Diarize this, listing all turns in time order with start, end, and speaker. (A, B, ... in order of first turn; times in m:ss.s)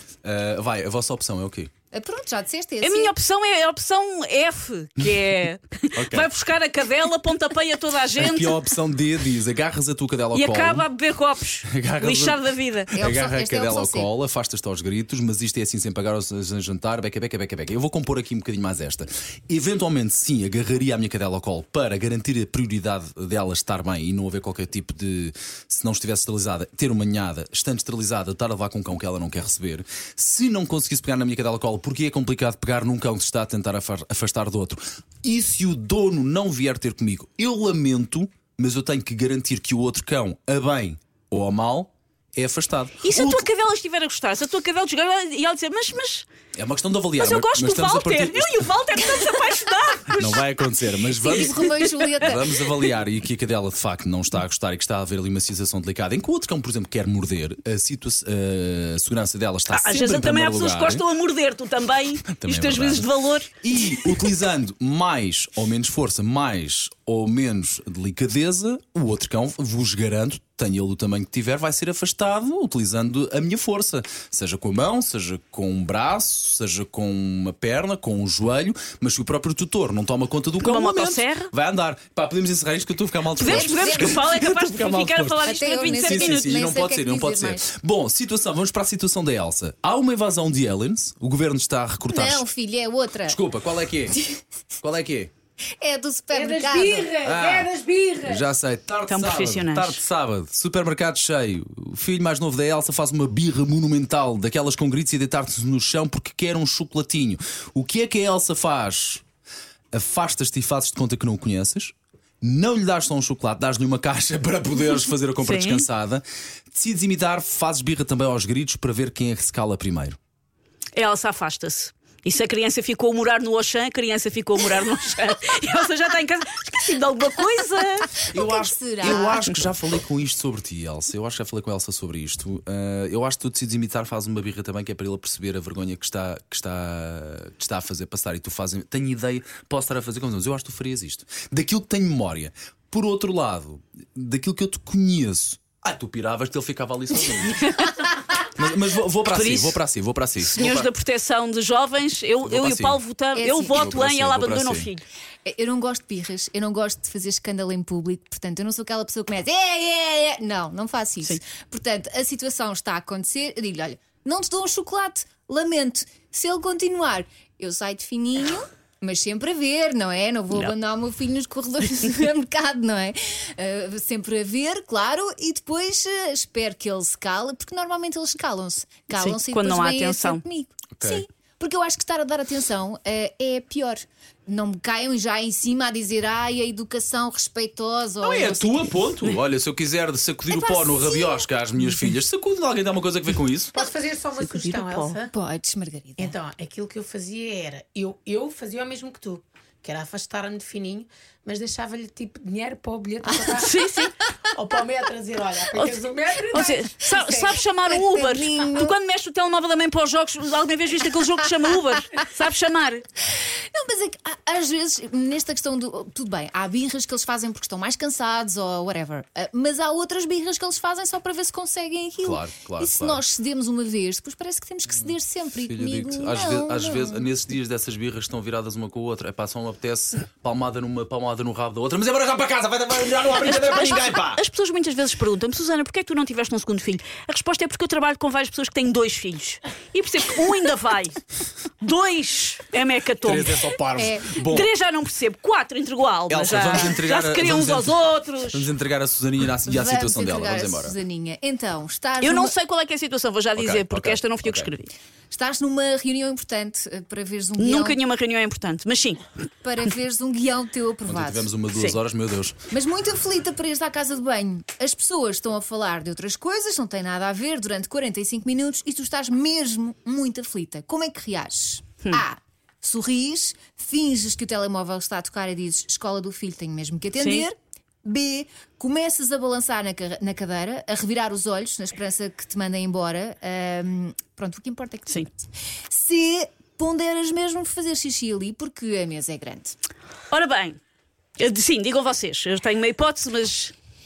0:00.2-0:01.7 A
0:01.9-0:03.1 B
0:02.8-0:08.6 C
0:05.9-0:06.3 A
0:08.2-0:10.9 A
0:10.3-0:13.0 C
0:11.7-0:12.4 A
0:12.9-0:14.1 B
0:12.9-0:43.5 A
0:43.0-0:46.3 C
0:46.6-0:48.7 A
0:47.2-0:50.4 C
0:50.1-1:01.0 A
0:51.2-0:52.5 B
0:51.3-0:52.3 C
0:59.7-1:04.3 C
1:02.3-1:03.1 A
1:03.6-1:32.4 A
1:20.6-1:21.5 C
1:23.4-1:26.6 C
1:23.4-1:24.2 B
1:25.4-1:27.7 B
1:32.1-1:33.4 B
1:33.3-1:34.2 A
1:34.8-1:35.3 A
1:35.8-1:37.2 B
1:36.3-1:38.4 D
1:37.2-1:37.7 A
1:38.2-1:49.2 A
1:39.1-1:40.0 C
1:49.9-2:00.2 A
1:55.4-1:55.9 C
2:00.9-2:08.1 C
2:08.3-2:27.7 A
2:08.3-2:09.5 B
2:27.6-2:28.1 C
2:28.6-2:30.9 A
2:29.3-2:29.8 C
2:30.4-2:35.1 C
2:32.5-2:33.0 A
2:33.3-2:33.9 B
2:33.7-2:34.9 A
2:35.5-3:08.9 B
2:59.1-3:00.4 C
3:01.0-3:01.2 A
3:08.2-3:13.7 A
3:10.5-3:11.5 B
3:13.7-3:15.3 D
3:14.4-3:15.2 C
3:15.3-3:16.4 B
3:16.2-3:23.8 D
3:23.5-3:24.1 C
3:24.5-3:27.6 D
3:25.7-3:33.0 C
3:27.9-3:29.0 B
3:33.7-3:47.2 B
3:42.2-3:43.2 A
3:45.0-3:54.4 A
3:53.4-4:01.2 C
4:01.8-4:03.7 C
4:03.2-4:04.7 A
4:04.0-4:04.4 B
4:04.4-4:08.7 C
4:06.3-4:08.0 A
4:08.5-4:11.0 A
4:09.6-4:12.6 B
4:12.2-4:14.9 C
4:13.6-4:14.7 A
4:15.3-4:18.0 B
4:17.6-4:19.3 C
4:19.6-4:21.5 B
4:21.1-4:22.6 A
4:22.7-4:45.3 B
4:37.2-4:37.5 C
4:45.9-4:49.8 B
4:50.3-4:50.8 C
4:51.4-4:53.7 C